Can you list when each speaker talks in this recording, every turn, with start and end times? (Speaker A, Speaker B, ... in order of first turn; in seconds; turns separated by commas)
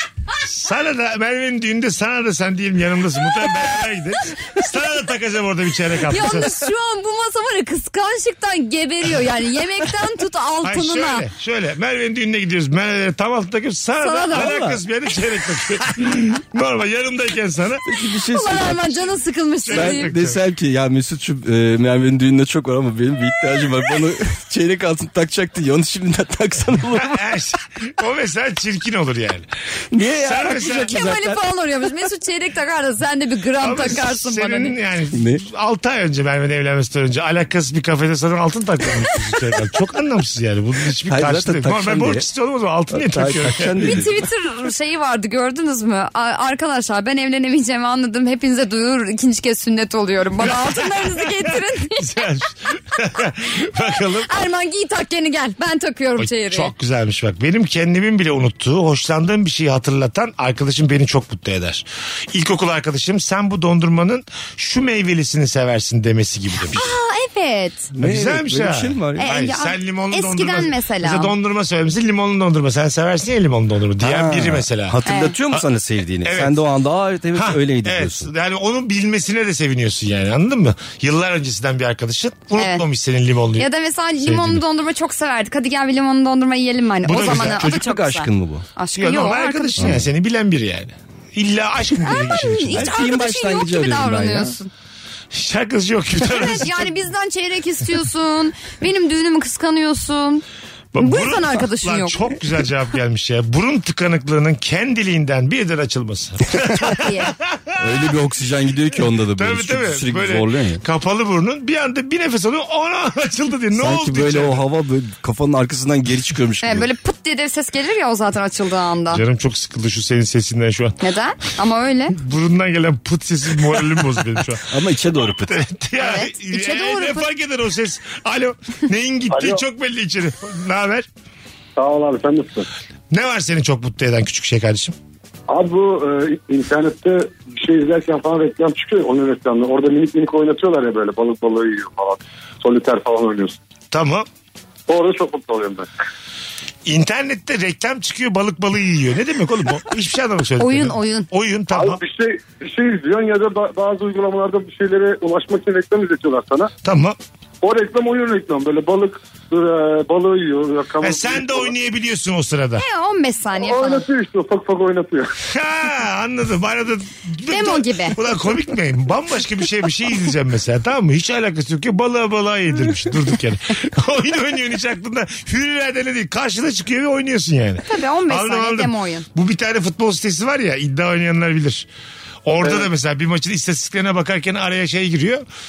Speaker A: 0.4-6.6, Speaker B: 6.1-11.3, Speaker A: 10.6-17.9, Speaker B: 14.0-14.6, Speaker C: 14.3-14.8, Speaker C: 17.9-19.1, Speaker B: 18.3-20.1, Speaker A: 19.7-20.4, Speaker C: 19.7-27.2, Speaker A: 27.0-29.5, Speaker C: 29.9-31.4, Speaker A: 30.2-30.9, Speaker B: 30.6-34.8, Speaker A: 33.6-44.0, Speaker C: 35.1-35.4, Speaker C: 41.1-42.2, Speaker C: 42.9-44.1, Speaker B: 43.8-52.1, Speaker A: 50.4-54.3, Speaker B: 54.2-56.7, Speaker A: 56.2-66.9, Speaker B: 66.7-67.9, Speaker C: 68.0-69.3, Speaker A: 68.0-75.0, Speaker B: 69.2-71.3, Speaker C: 74.0-78.3, Speaker B: 75.1-75.4, Speaker A: 76.2-76.6, Speaker A: 77.3-83.7, Speaker B: 82.6-82.8, Speaker B: 83.6-89.9, Speaker A: 84.2-84.6, Speaker A: 87.0-87.7, Speaker C: 87.1-88.7, Speaker A: 89.0-93.0, Speaker C: 89.8-90.0, Speaker B: 92.0-94.7, Speaker C: 92.7-94.5, Speaker A: 95.3-96.9, Speaker B: 96.2-100.4, Speaker A: 100.9-108.1, Speaker B: 101.0-102.3, Speaker B: 106.8-107.3, Speaker C: 107.8-110.8, Speaker A: 109.3-114.6, Speaker C: 113.8-116.9, Speaker B: 116.6-119.2, Speaker A: 119.1-121.0, Speaker B: 121.0-122.2, Speaker A: 122.2-124.7, Speaker C: 124.7-125.6, Speaker A: 125.5-131.1, Speaker B: 126.0-127.3, Speaker D: 129.3-129.6, Speaker D: 131.8-132.7, Speaker A: 133.1-134.9, Speaker D: 135.5-143.6, Speaker A: 143.9-144.3, Speaker D: 144.9-145.9, Speaker A: 146.9-152.0, Speaker B: 150.6-151.3, Speaker D: 151.7-156.7, Speaker A: 156.8-157.2, Speaker D: 157.6-161.7, Speaker A: 161.0-162.8, Speaker B: 162.8-164.1, Speaker D: 163.6-165.3, Speaker A: 165.5-181.9, Speaker B: 167.5-168.2, Speaker B: 177.9-179.3, Speaker A: 182.4-185.4, Speaker D: 182.6-182.9